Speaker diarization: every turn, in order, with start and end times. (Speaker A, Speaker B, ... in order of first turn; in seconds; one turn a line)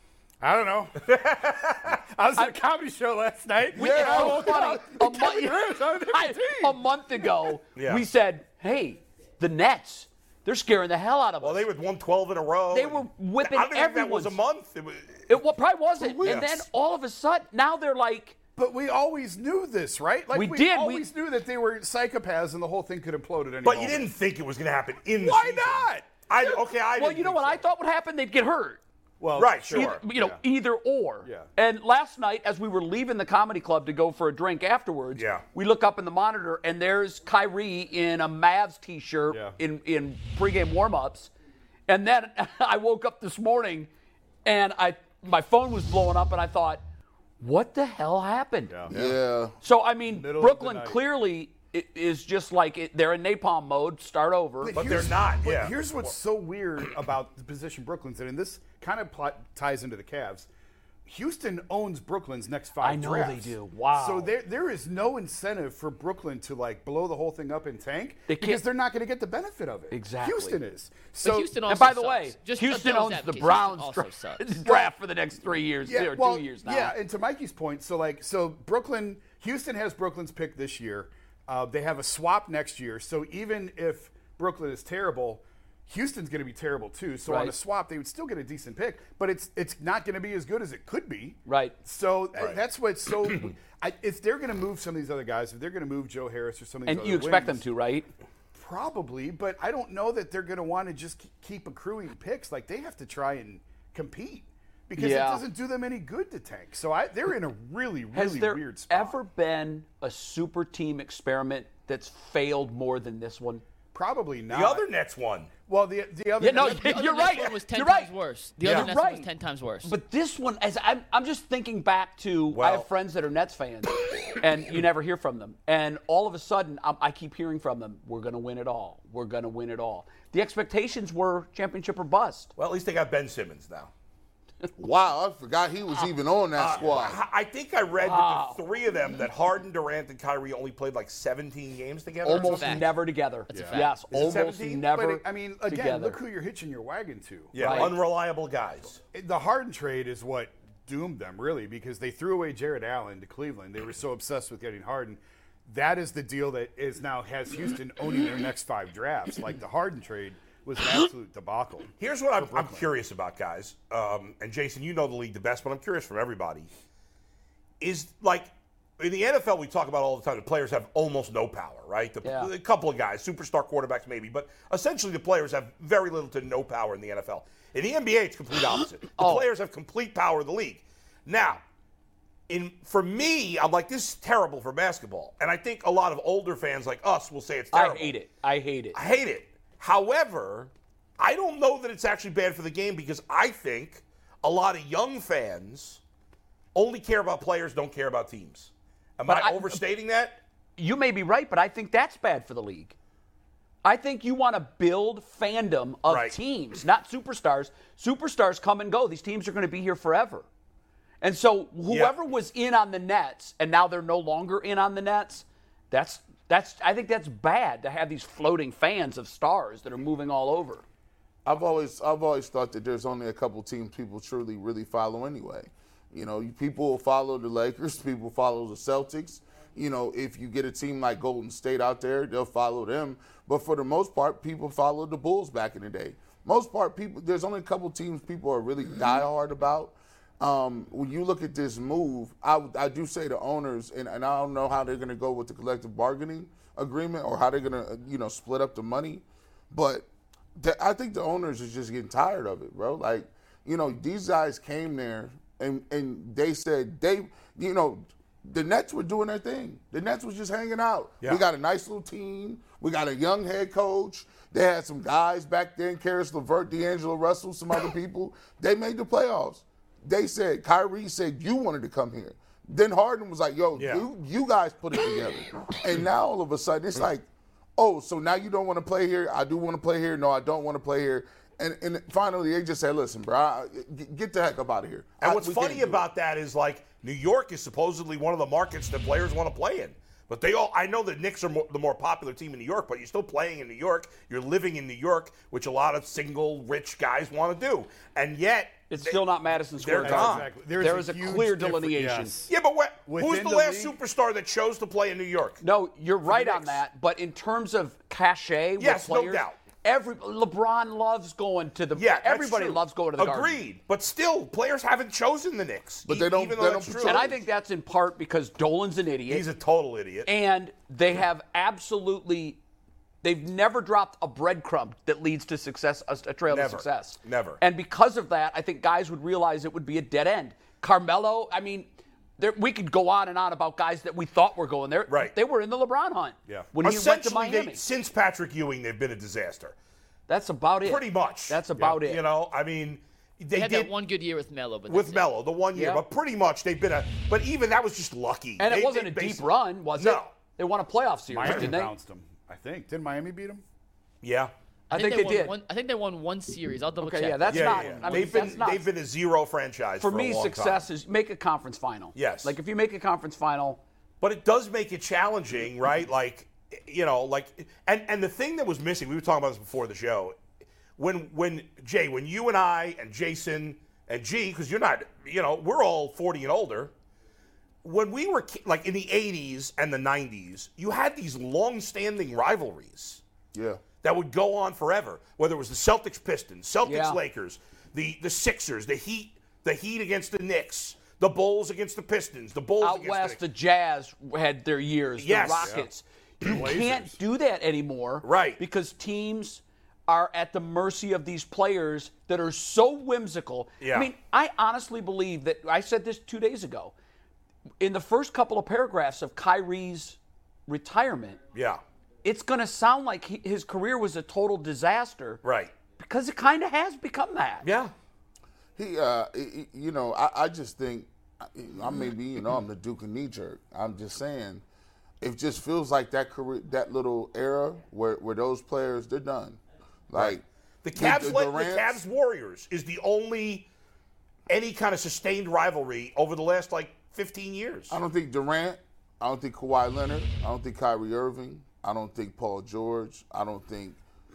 Speaker A: 0.4-1.2
Speaker B: 1.1-1.9
Speaker A: 1.8-7.5
Speaker C: 3.7-11.7
Speaker D: 3.8-4.5
Speaker B: 7.8-8.1
Speaker B: 11.4-15.3
Speaker C: 12.7-14.4
Speaker C: 15.3-18.4
Speaker B: 16.2-16.6
Speaker A: 18.6-24.1
Speaker C: 20.3-21.1
Speaker B: 23.6-27.6
Speaker A: 25.2-26.1
Speaker C: 26.4-28.8
Speaker A: 29.2-30.4
Speaker B: 29.4-30.0
Speaker C: 29.7-41.3
Speaker A: 31.2-31.5
Speaker B: 35.1-35.4
Speaker A: 39.3-39.6
Speaker C: 41.9-43.9
Speaker C: 44.5-46.8
Speaker C: 47.4-48.9
Speaker A: 48.7-49.2
Speaker D: 48.9-49.5
Speaker C: 49.6-54.8
Speaker A: 50.0-51.0
Speaker A: 54.6-60.5
Speaker B: 54.8-56.1
Speaker A: 61.1-71.5
Speaker C: 62.8-64.3
Speaker C: 68.3-68.6
Speaker C: 69.9-70.6
Speaker E: 71.2-74.6
Speaker C: 71.7-77.0
Speaker A: 75.8-97.6
Speaker C: 87.3-87.5
Speaker C: 91.5-91.8
Speaker C: 96.9-98.1
Speaker A: 98.5-109.2
Speaker C: 105.0-105.4
Speaker C: 108.1-113.6
Speaker A: 113.9-114.8
Speaker B: 114.5-115.5
Speaker A: 115.7-117.2
Speaker C: 116.4-119.3
Speaker E: 116.5-119.9
Speaker C: 119.8-132.5
Speaker B: 122.5-122.9
Speaker B: 132.6-133.9
Speaker D: 134.8-137.2
Speaker B: 136.6-142.9
Speaker C: 138.0-138.6
Speaker C: 142.2-146.2
Speaker E: 142.3-144.0
Speaker A: 143.5-148.0
Speaker B: 144.1-144.8
Speaker B: 147.5-149.0
Speaker C: 147.6-147.9
Speaker A: 149.1-162.9
Speaker B: 162.0-166.7
Speaker B: 167.8-181.6
Speaker C: 172.2-172.5
Speaker C: 179.2-179.5
Speaker B: 182.5-188.2
Speaker C: 187.7-189.0
Speaker B: 188.9-196.0
Speaker B: 196.8-200.4
Speaker C: 199.3-199.8
Speaker C: 200.8-202.9
Speaker C: 203.8-210.5
Speaker B: 206.1-206.3
Speaker C: 211.2-220.8
Speaker B: 211.9-212.1
Speaker D: 221.4-277.3
Speaker B: 273.8-274.1
Speaker D: 277.8-286.0
Speaker B: 285.2-299.2
Speaker C: 298.9-302.4
Speaker B: 299.8-300.5
Speaker A: 300.0-302.5
Speaker B: 302.5-305.6
Speaker A: 303.1-303.9
Speaker C: 305.6-313.6
Speaker A: 306.3-306.8
Speaker B: 308.8-309.6
Speaker B: 312.0-317.3
Speaker D: 316.1-317.4
Speaker C: 317.0-319.5
Speaker B: 319.3-320.3
Speaker C: 320.3-322.6
Speaker C: 323.2-337.8
Speaker B: 326.5-327.6
Speaker B: 335.1-335.4
Speaker B: 336.8-339.8
Speaker C: 340.3-342.2
Speaker B: 340.8-343.9
Speaker E: 343.5-345.3
Speaker B: 344.9-350.3
Speaker C: 345.7-346.0
Speaker C: 348.6-351.9
Speaker A: 351.3-353.6
Speaker B: 354.2-354.5
Speaker E: 354.9-357.8
Speaker C: 354.9-355.5
Speaker C: 357.0-358.9
Speaker B: 357.5-360.9
Speaker A: 357.6-358.3
Speaker C: 360.0-363.8
Speaker B: 362.1-362.6
Speaker B: 364.2-370.4
Speaker B: 371.0-376.9
Speaker B: 377.8-383.2
Speaker D: 383.5-383.8
Speaker B: 384.0-393.4
Speaker C: 386.8-387.2
Speaker C: 392.8-406.9
Speaker B: 395.2-395.8
Speaker A: 395.5-395.9
Speaker A: 396.4-397.2
Speaker B: 398.2-398.6
Speaker B: 403.8-404.1
Speaker C: 407.8-411.4
Speaker B: 411.5-411.8
Speaker C: 412.2-415.4
Speaker B: 415.4-415.7
Speaker C: 416.0-417.7
Speaker B: 417.6-417.9
Speaker D: 418.8-424.6
Speaker D: 425.2-430.4
Speaker B: 430.1-433.7
Speaker D: 430.9-432.0
Speaker B: 434.5-438.0
Speaker D: 437.9-444.0